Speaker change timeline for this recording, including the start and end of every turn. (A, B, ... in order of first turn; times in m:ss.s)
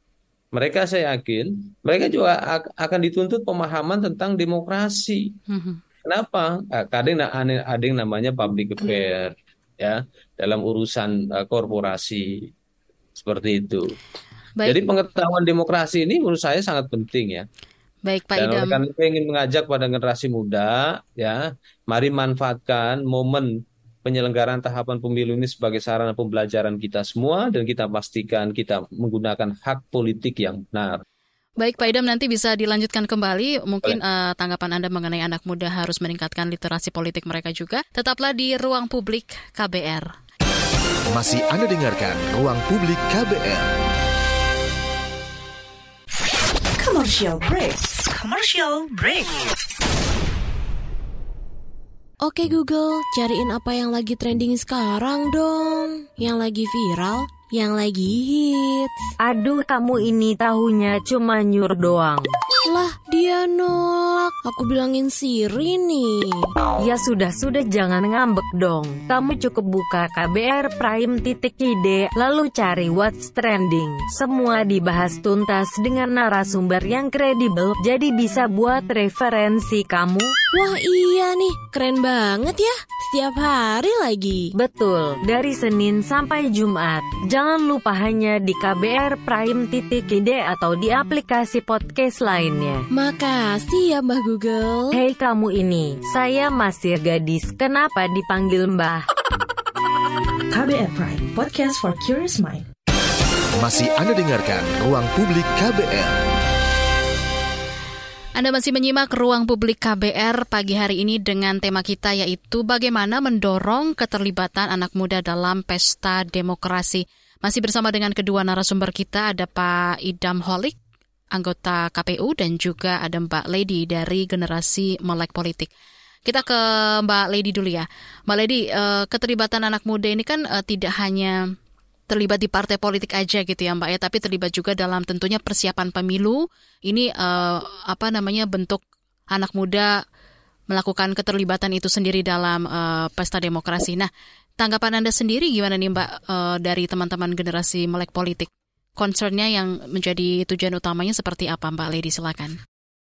0:00.5-0:05.4 A
0:05.5-0:05.8 B
0:06.0-0:12.5 A
0:13.2-0:13.9 A
0:14.6-0:17.5 A
0:18.0-0:18.8 B
0:18.4-0:23.5 A
0:24.0-0:31.0 A
0:31.6-0:40.1 B
0:41.1-0:43.7 C
0:46.8-0:49.4 D
0:52.2-0:59.0 E
0:59.2-1:02.3 F
1:02.7-1:06.5 E
1:06.8-1:20.3 F
1:20.5-1:24.5 E
1:24.6-1:32.8 F
1:32.9-1:35.0 E
1:34.9-1:39.1 F
1:40.5-1:42.7 D
1:43.6-1:46.2 C
1:48.4-2:00.8 B
2:01.3-2:05.7 B
2:06.3-2:11.4 B
2:12.1-2:18.8 B
2:19.3-2:20.0 B
2:20.7-2:32.6 B